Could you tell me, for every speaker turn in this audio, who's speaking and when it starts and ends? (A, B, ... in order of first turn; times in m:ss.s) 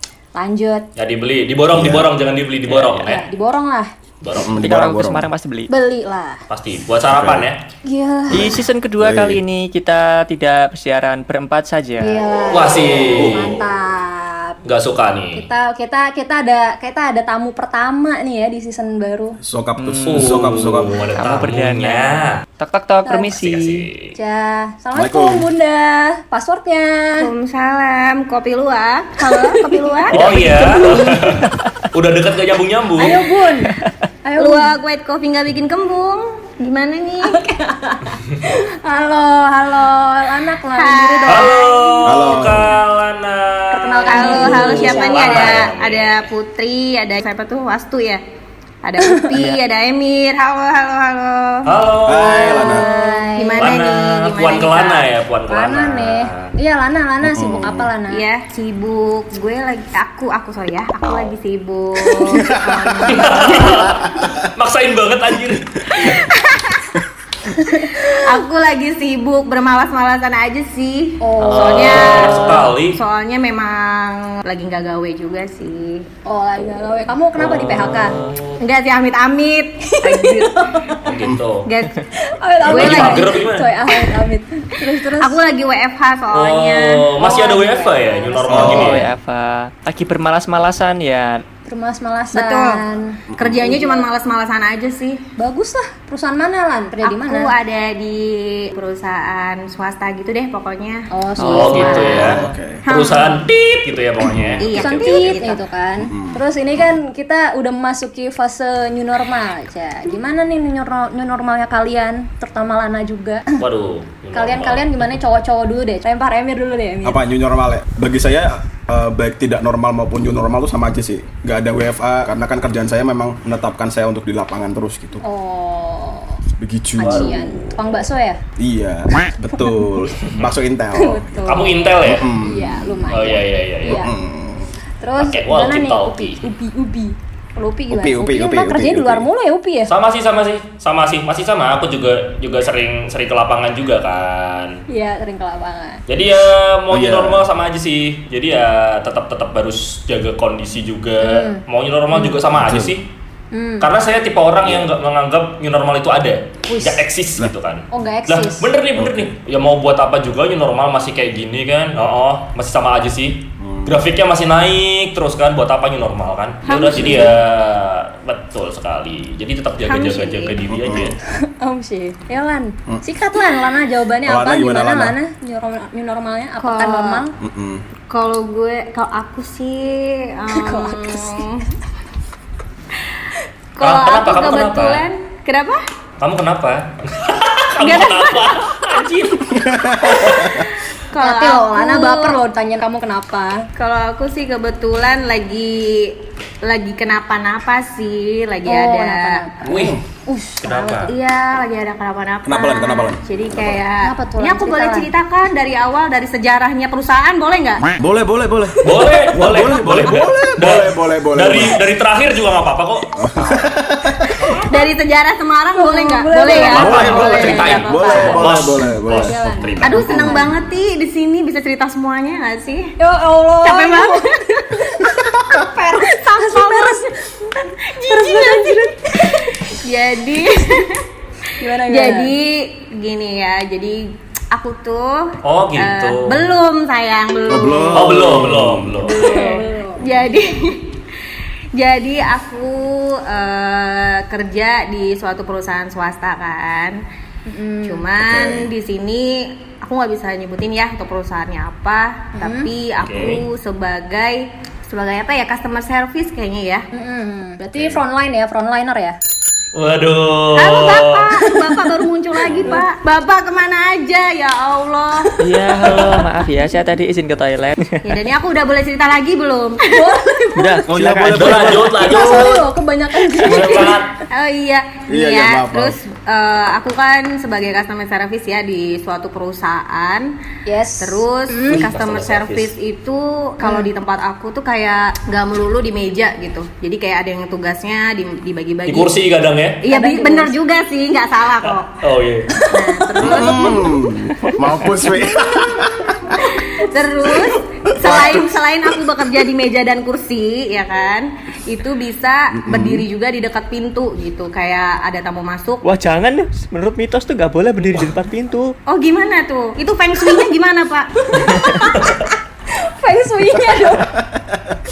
0:00.3-0:00.8 A
0:01.0-0:03.2 B
0:01.7-0:02.1 C
0:02.7-0:03.0 D
0:03.0-0:03.9 A
0:04.2-0:04.6 B
0:04.4-0:05.3 C
0:04.6-0:05.7 D
0:05.7-0:06.4 A
0:06.5-0:07.6 B
0:07.1-0:07.5 C
0:07.8-0:08.5 A
0:08.3-0:12.2 D
0:08.3-0:09.4 C
0:12.0-0:14.6 A
0:12.5-0:13.6 B
0:13.2-0:13.5 C
0:14.6-0:15.4 B
0:15.3-0:19.4 A
0:19.4-0:21.0 C
0:19.8-0:23.8 D
0:20.1-0:22.4 B
0:23.0-0:23.3 A
0:23.3-0:24.1 B
0:24.1-0:27.2 A
0:24.9-0:25.5 C
0:27.2-0:30.4 E
0:29.2-0:31.2 A
0:30.1-0:31.8 D
0:30.1-0:33.2 B
0:33.0-0:34.7 A
0:34.4-0:37.5 E
0:37.3-0:41.9 A
0:40.8-0:42.2 E
0:41.3-0:46.3 B
0:42.0-0:42.8 C
0:43.7-0:45.6 A
0:44.1-0:48.2 E
0:48.8-0:51.7 E
0:49.3-0:49.6 D
0:51.6-0:52.6 B
0:52.0-0:52.9 C
0:52.2-0:53.7 A
0:52.5-0:55.1 E
0:53.6-0:56.5 B
0:55.5-0:58.2 A
0:57.2-0:57.9 C
0:58.1-1:03.9 E
1:02.3-1:03.7 A
1:03.1-1:06.2 B
1:06.0-1:06.8 E
1:07.5-1:08.2 A
1:07.8-1:16.0 E
1:11.2-1:12.5 A
1:11.4-1:13.0 B
1:11.6-1:12.2 D
1:16.2-1:18.1 A
1:17.4-1:18.6 B
1:18.6-1:20.8 E
1:19.9-1:21.0 A
1:21.0-1:21.7 B
1:21.6-1:22.0 E
1:22.2-1:25.4 A
1:22.6-1:23.4 E
1:22.6-1:23.7 B
1:25.2-1:27.1 E
1:26.3-1:29.0 B
1:27.2-1:28.8 A
1:28.5-1:29.0 C
1:28.5-1:31.4 D
1:31.6-1:34.0 A
1:32.3-1:32.8 E
1:33.3-1:33.8 C
1:33.4-1:35.2 E
1:35.4-1:37.5 A
1:37.0-1:42.2 E
1:41.1-1:42.4 A
1:41.4-1:42.4 D
1:41.5-1:45.5 B
1:42.2-1:42.8 C
1:42.8-1:43.4 E
1:44.4-1:44.6 C
1:44.6-1:45.6 E
1:44.8-1:53.6 A
1:46.0-1:46.4 C
1:53.6-1:54.8 B
1:54.3-1:57.2 A
1:57.0-2:05.2 C
2:05.2-2:06.4 A
2:06.6-2:07.4 C
2:07.0-2:08.4 A
2:07.0-2:07.9 B
2:08.6-2:13.1 C
2:11.0-2:14.1 A
2:11.5-2:12.3 B
2:13.1-2:14.0 B
2:13.8-2:14.7 C
2:15.0-2:19.9 A
2:15.2-2:16.4 B
2:17.9-2:19.2 C
2:19.9-2:24.8 B
2:24.9-2:26.0 A
2:26.1-2:33.1 B
2:26.9-2:27.4 C
2:31.2-2:31.6 A
2:32.5-2:32.9 C
2:33.5-2:33.9 A
2:33.8-2:51.2 B
2:34.6-2:34.9 C
2:36.7-2:37.0 A
2:37.9-2:38.7 A
2:38.9-2:39.3 C
2:43.6-2:44.0 C
2:46.6-2:47.4 E
2:49.8-2:50.6 E
2:50.7-2:51.2 C
2:51.6-2:57.3 A
2:54.2-2:55.2 C
2:56.6-2:57.2 E
2:57.4-2:57.8 C
2:58.1-3:01.6 E
3:00.5-3:01.4 A
3:02.9-3:03.2 E
3:03.7-3:05.8 E
3:03.8-3:05.0 B
3:06.2-3:09.8 B
3:07.8-3:09.1 E
3:09.6-3:10.6 C
3:10.5-3:12.4 E
3:11.2-3:13.6 A
3:13.8-3:19.4 E
3:18.6-3:21.1 A
3:19.6-3:20.0 B
3:19.6-3:20.0 C
3:20.6-3:21.1 B
3:21.1-3:27.9 E
3:22.4-3:23.8 C
3:24.0-3:25.1 A
3:28.0-3:31.8 C
3:28.8-3:33.6 B
3:33.2-3:34.4 C
3:34.7-3:38.4 E
3:35.8-3:40.5 A
3:36.5-3:40.3 B
3:36.6-3:40.4 C
3:39.8-3:42.9 E
3:43.0-3:45.1 A
3:43.6-3:47.1 E
3:46.0-3:49.4 A
3:47.9-3:51.0 E
3:51.6-3:52.3 A
3:51.7-3:58.5 E
3:55.4-3:56.4 B
3:57.5-3:59.0 C
3:57.9-3:59.4 B
3:59.0-4:00.9 E
3:59.0-4:00.1 A
4:01.7-4:07.0 E
4:07.4-4:08.1 A
4:07.8-4:16.8 E
4:08.2-4:08.7 C
4:12.4-4:12.7 A
4:13.0-4:13.4 B
4:16.9-4:19.2 A
4:19.7-4:21.2 B
4:20.6-4:25.3 E
4:21.5-4:21.8 A
4:22.6-4:22.8 A
4:25.4-4:28.0 D
4:28.0-4:30.8 E
4:29.9-4:30.7 A
4:30.6-4:31.8 D
4:30.9-4:32.5 C
4:31.3-4:32.6 B
4:32.0-4:34.0 A
4:32.2-4:32.5 E
4:33.3-4:40.3 E
4:33.4-4:34.1 B
4:35.1-4:36.0 C
4:40.6-4:41.9 A
4:41.0-4:49.1 E
4:41.7-4:42.7 B
4:43.6-4:43.9 A
4:48.9-4:49.8 B
4:49.8-4:52.0 E
4:49.9-4:50.5 A
4:52.0-4:52.5 B
4:52.5-4:53.8 A
4:52.6-4:54.0 E
4:53.2-4:56.5 C
4:56.4-5:05.8 E
4:57.3-4:58.9 C
5:02.6-5:03.0 C
5:05.8-5:08.7 D
5:08.9-5:12.0 E
5:11.3-5:12.0 A
5:12.7-5:14.2 A